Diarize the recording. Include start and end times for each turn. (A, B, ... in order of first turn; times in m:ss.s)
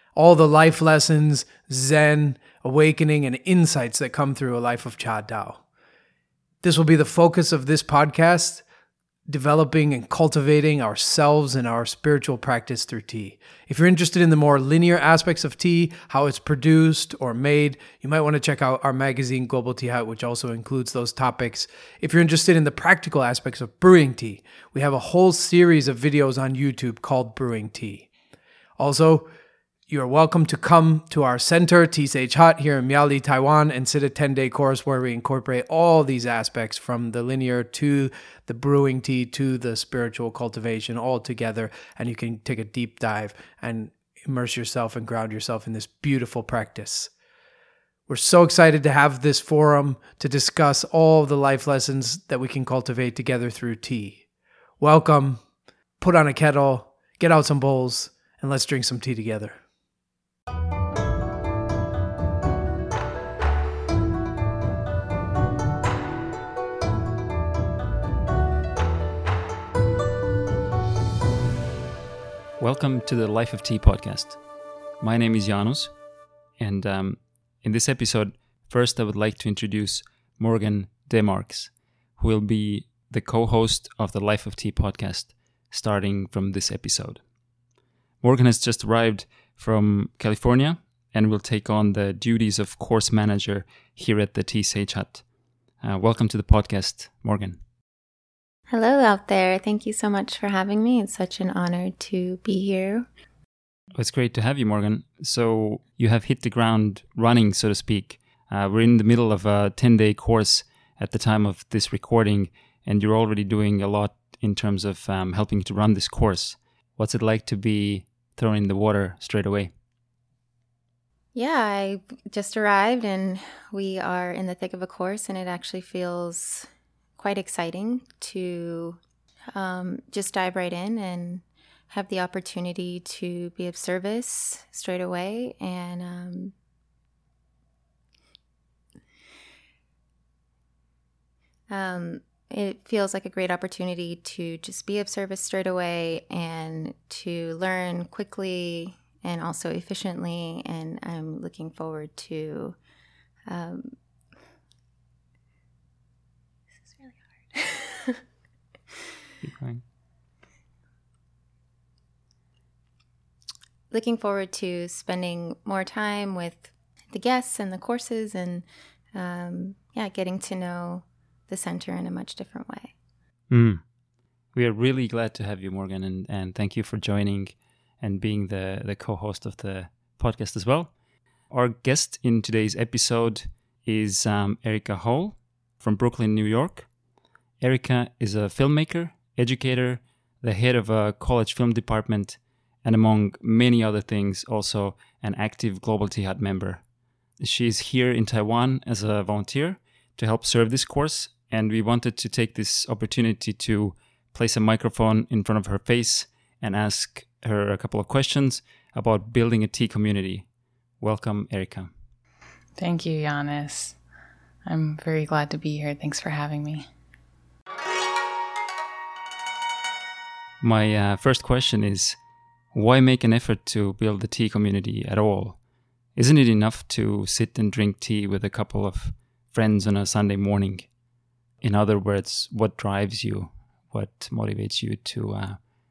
0:00.1-0:05.6 A
0:06.6-0:08.6 A
0:09.3-0:28.1 A
0:28.8-0:29.3 A
0:29.9-0:47.1 A
0:48.1-0:54.2 A
0:54.8-0:55.4 A
0:56.0-0:59.6 A
1:12.6-1:14.4 B
1:15.0-1:15.9 B
1:16.6-1:27.2 B
1:28.2-1:35.2 B
1:35.8-1:37.6 B
1:38.7-1:43.1 C
1:43.9-1:59.7 B
2:01.3-2:09.0 C
2:09.5-2:16.5 C
2:21.7-2:32.8 C
2:33.5-2:33.9 C
2:36.8-2:38.1 C
2:39.4-2:39.8 B
2:43.9-2:52.9 C
2:53.5-2:53.8 B
2:54.5-3:00.9 B
3:01.5-3:06.9 B
3:07.6-3:16.8 B
3:17.4-3:30.5 B
3:31.0-3:31.9 B
3:32.8-3:34.0 D
3:34.6-3:36.9 D
3:40.6-3:42.2 B
3:42.7-3:45.6 B
3:46.1-3:50.9 B
3:51.6-3:55.6 B